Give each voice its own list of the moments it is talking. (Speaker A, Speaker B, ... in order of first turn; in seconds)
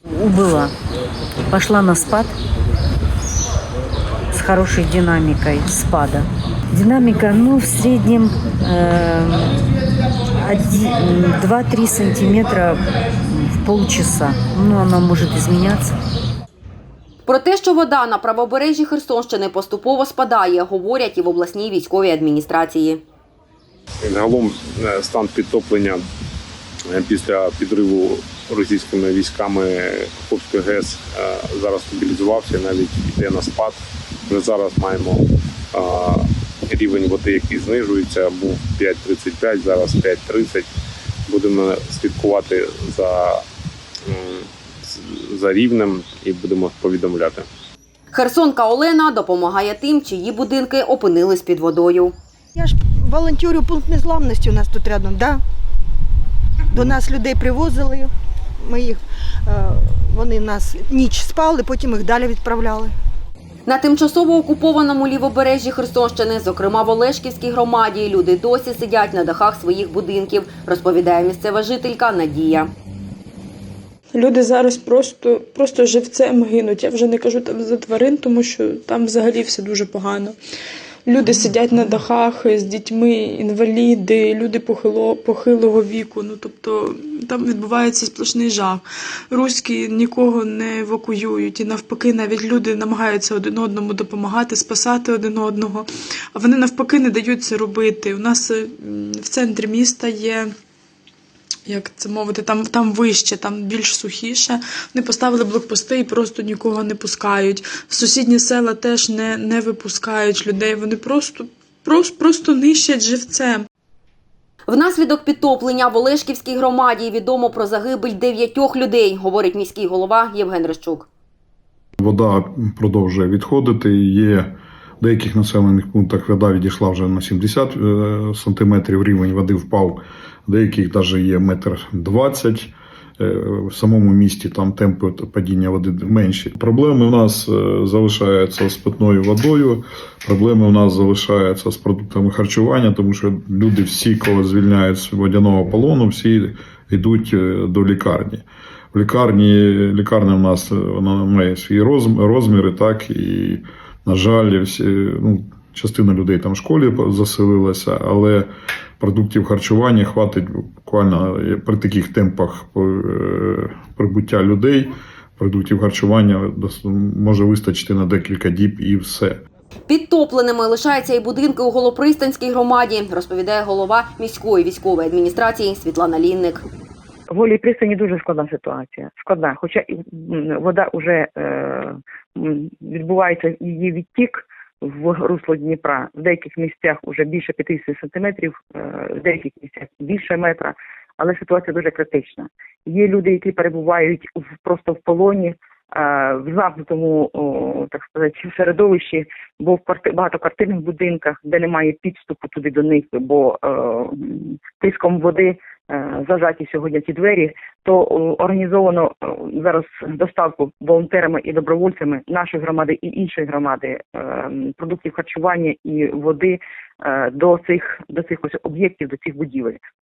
Speaker A: 0.1-0.7, 1.5-2.3, 4.3-9.6, 10.4-15.9
Speaker B: 17.2-23.0, 48.1-52.1, 63.6-72.7, 114.7-121.1, 169.9-176.6
Speaker C: 24.0-26.1, 26.9-40.7, 41.3-43.4, 44.0-47.5
Speaker D: 52.5-55.4, 56.7-62.9
Speaker E: 74.1-80.3, 81.0-100.5, 101.7-113.6
Speaker F: 122.0-158.5, 159.0-169.4
Speaker G: 177.3-219.8